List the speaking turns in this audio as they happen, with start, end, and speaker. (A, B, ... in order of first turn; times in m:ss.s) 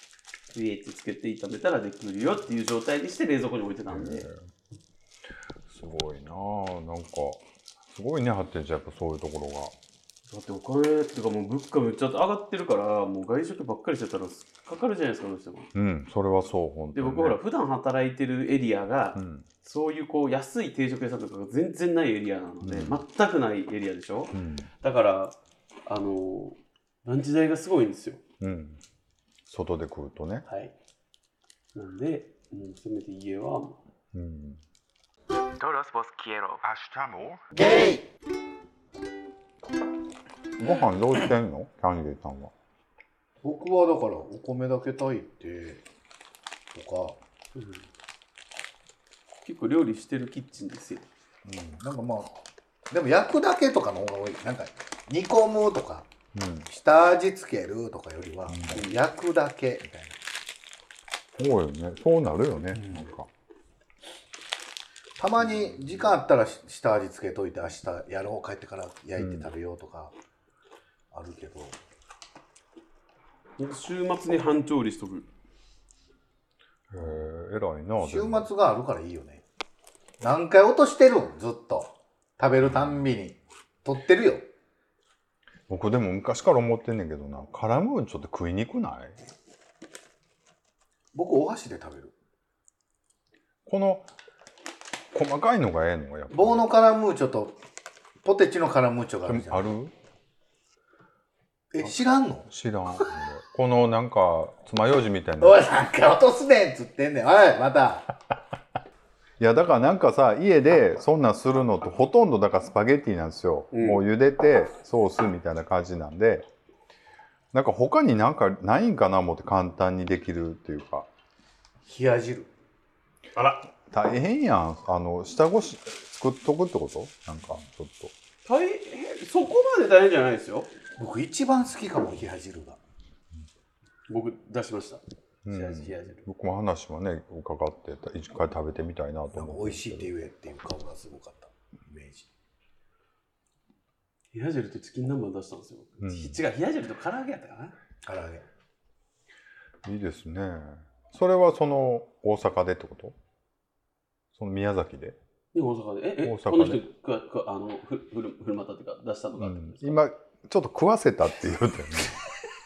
0:00.5-0:04.3 A
0:03.9-0:04.4 B
0:05.7-0:09.8 B
0:10.3-0:15.7 A
0:15.7-0:17.4 B
0:16.9-0:28.2 A
0:19.2-0:19.5 B
0:22.6-0:23.0 B
0:24.3-0:24.7 B
0:28.4-0:28.8 B
0:29.5-0:30.4 B
0:30.5-0:30.7 A
0:31.7-0:33.8 A
0:34.1-0:34.6 B
0:35.6-0:36.6 A
0:36.6-0:37.5 B
0:40.6-0:42.5 B
0:43.4-0:45.8 C
0:46.7-0:47.2 C
0:47.5-0:47.8 A
0:49.4-0:51.1 A
0:51.4-0:52.3 C
0:52.9-0:56.1 C
0:56.3-0:56.7 B
0:56.7-1:00.2 C
0:58.5-0:58.8 B
1:01.4-1:03.3 B
1:02.7-1:03.1 C
1:05.2-1:10.1 C
1:05.6-1:06.0 B
1:09.2-1:09.5 B
1:11.1-1:11.8 C
1:13.6-1:15.3 A
1:16.9-1:18.5 B
1:18.0-1:19.4 C
1:20.2-1:24.5 C
1:25.7-1:29.2 B
1:31.1-1:32.1 C
1:33.7-1:34.1 B
1:35.1-1:36.7 B
1:36.3-1:37.6 C
1:38.2-1:39.7 C
1:39.3-1:39.9 B
1:41.7-1:42.5 C
1:42.5-1:45.6 B
1:45.4-1:48.1 C
1:49.4-1:56.5 B
1:53.7-1:54.0 A
1:57.5-2:01.1 B
2:01.8-2:02.5 C
2:03.8-2:08.1 B
2:08.4-2:10.7 A
2:11.0-2:12.8 C
2:14.1-2:16.3 A
2:15.4-2:20.1 B
2:19.3-2:22.3 C
2:24.3-2:27.7 A
2:26.0-2:26.4 B
2:28.0-2:28.4 C
2:29.8-2:33.2 B
2:34.3-2:35.2 B
2:35.5-2:40.0 A
2:36.2-2:36.8 B
2:39.4-2:42.2 B